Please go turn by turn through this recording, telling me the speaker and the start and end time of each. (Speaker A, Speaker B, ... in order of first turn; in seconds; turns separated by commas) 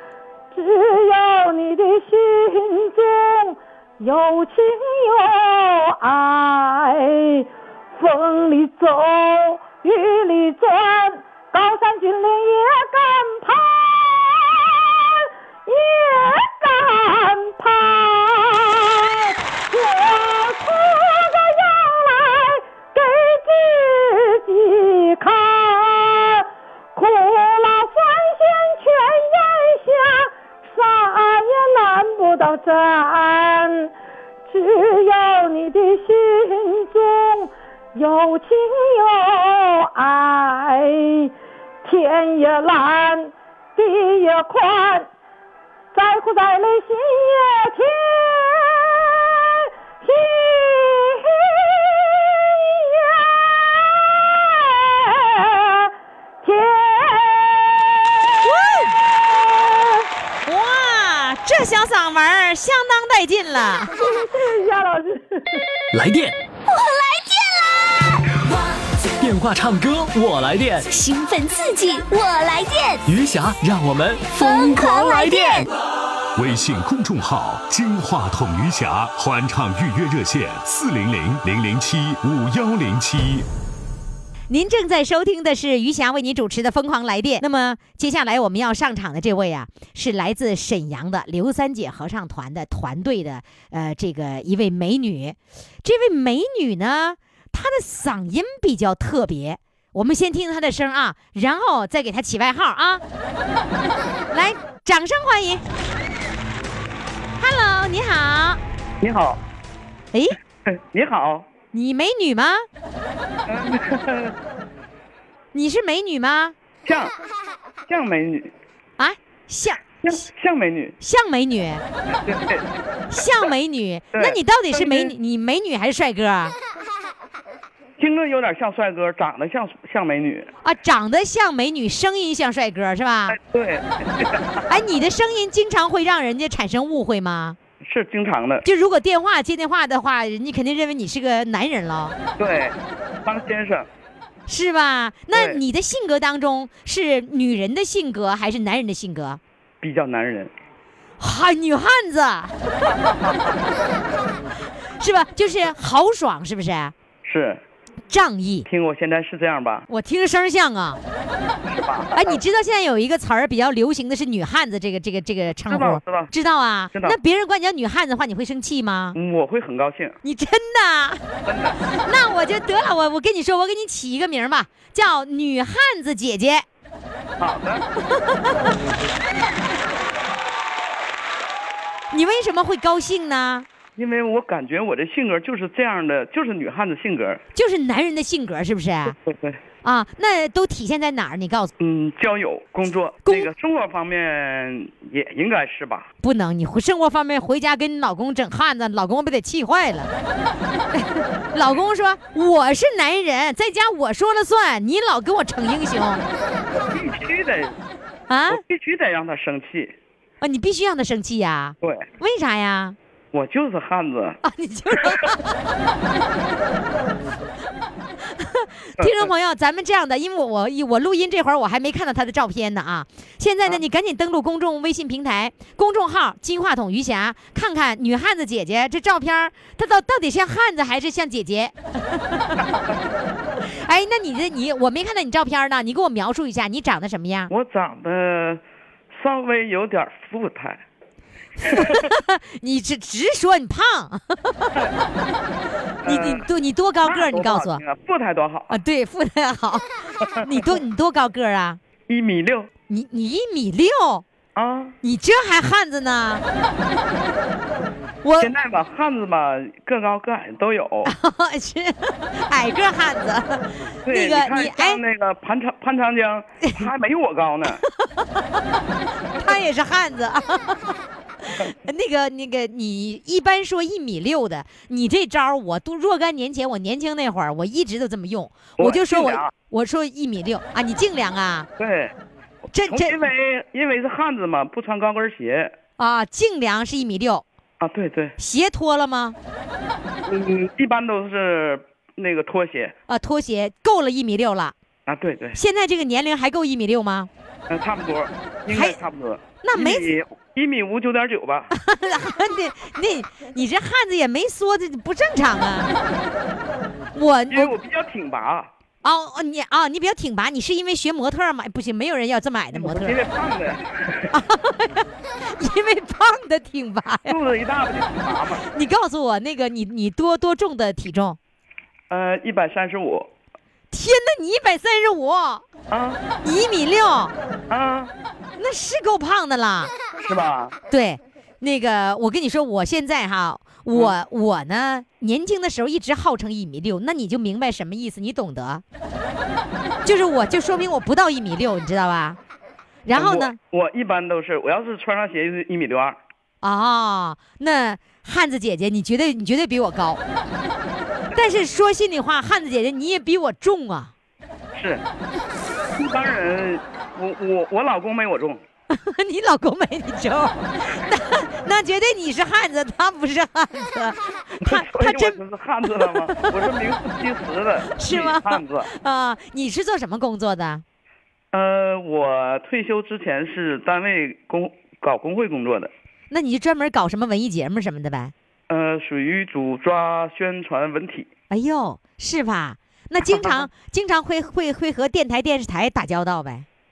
Speaker A: 0.5-33.9, Speaker A: 34.5-41.3, Speaker A: 41.8-45.1, Speaker A: 45.9-55.9, Speaker A: 56.4-60.1, Speaker B: 58.4-59.0, Speaker B: 60.4-63.9, Speaker A: 64.0-65.6, Speaker C: 65.9-66.3, Speaker D: 66.7-68.1, Speaker C: 69.2-70.8, Speaker D: 70.9-73.0, Speaker C: 73.0-75.7, Speaker D: 74.3-75.7, Speaker E: 76.3-83.5, Speaker B: 84.5-103.0, Speaker B: 104.3-105.6, Speaker B: 107.4-108.6, Speaker F: 109.0-109.4, Speaker F: 110.7-111.5, Speaker B: 111.7-112.7, Speaker F: 113.5-114.3, Speaker B: 115.5-116.5, Speaker F: 116.8-117.1, Speaker F: 117.9-118.5, Speaker B: 119.0-120.1, Speaker F: 120.0-120.9, Speaker B: 121.0-121.8, Speaker F: 122.1-122.7, Speaker B: 123.1-126.5, Speaker F: 124.1-125.1, Speaker F: 128.0-130.5, Speaker B: 130.6-133.4, Speaker F: 133.3-134.7, Speaker B: 134.7-137.6, Speaker F: 137.8-138.6, Speaker B: 138.6-142.2, Speaker F: 142.4-143.9, Speaker B: 144.5-149.4, Speaker F: 145.3-145.6, Speaker F: 149.8-150.5, Speaker B: 151.2-153.6, Speaker F: 152.9-153.6, Speaker B: 155.0-156.9, Speaker F: 157.2-157.6, Speaker B: 158.1-158.7, Speaker F: 158.7-159.8, Speaker B: 159.9-161.0, Speaker F: 161.7-162.4, Speaker B: 162.1-169.2, Speaker F: 165.7-166.3, Speaker F: 169.1-170.1, Speaker B: 170.2-171.2, Speaker F: 171.4-171.8, Speaker B: 172.0-176.7, Speaker F: 177.4-177.8, Speaker B: 178.1-178.7, Speaker B: 182.1-183.7, Speaker F: 183.9-187.4, Speaker B: 187.5-189.2, Speaker F: 189.2-189.6, Speaker B: 189.8-191.7, Speaker F: 191.8-196.1, Speaker B: 196.2-200.1, Speaker B: 200.9-206.2, Speaker F: 206.7-207.8, Speaker B: 208.3-208.6, Speaker F: 208.5-209.9, Speaker B: 210.4-213.0, Speaker F: 213.3-214.4, Speaker B: 214.4-215.5, Speaker F: 214.9-215.2, Speaker B: 218.3-232.6, Speaker F: 219.0-219.3, Speaker F: 232.7-232.9, Speaker B: 233.6-237.5, Speaker F: 237.5-240.8, Speaker F: 241.6-242.1, Speaker B: 241.6-244.9, Speaker F: 246.0-246.4, Speaker B: 246.0-247.8, Speaker F: 247.0-248.8, Speaker B: 248.7-251.8, Speaker F: 250.3-250.7, Speaker F: 252.1-252.7, Speaker B: 252.9-254.2, Speaker F: 254.6-254.9, Speaker B: 255.0-256.4, Speaker B: 258.2-258.5, Speaker F: 258.4-261.1, Speaker B: 261.1-265.0, Speaker F: 264.0-267.8, Speaker B: 267.7-268.8, Speaker B: 269.4-281.7, Speaker F: 278.8-279.5, Speaker F: 281.8-282.1, Speaker B: 282.7-283.2, Speaker F: 282.9-285.7, Speaker B: 286.0-287.4, Speaker F: 287.8-288.3, Speaker B: 288.4-289.4, Speaker F: 290.2-292.9, Speaker B: 293.1-294.7, Speaker F: 295.1-295.6, Speaker B: 295.5-297.3, Speaker F: 297.7-301.7, Speaker B: 298.7-299.0, Speaker B: 299.6-300.1, Speaker B: 301.7-305.9, Speaker B: 307.1-307.7, Speaker F: 307.5-308.7, Speaker B: 309.0-313.1, Speaker F: 312.7-314.3, Speaker B: 314.3-317.4, Speaker F: 317.3-318.6, Speaker B: 318.7-321.4, Speaker F: 322.1-323.3, Speaker B: 323.9-325.6, Speaker F: 325.9-326.2, Speaker B: 326.4-327.3, Speaker F: 327.7-328.1, Speaker B: 328.6-329.9, Speaker F: 330.2-330.7, Speaker B: 330.9-338.8, Speaker B: 340.0-342.4, Speaker B: 343.1-343.6, Speaker F: 343.1-346.2, Speaker B: 346.6-350.2, Speaker B: 351.3-354.1, Speaker F: 354.7-355.0, Speaker F: 356.0-358.6, Speaker B: 358.9-366.6, Speaker F: 364.6-368.9, Speaker B: 367.9-370.8, Speaker F: 371.5-375.9, Speaker B: 376.3-378.3, Speaker F: 378.7-381.3, Speaker B: 381.5-386.6, Speaker F: 383.2-383.6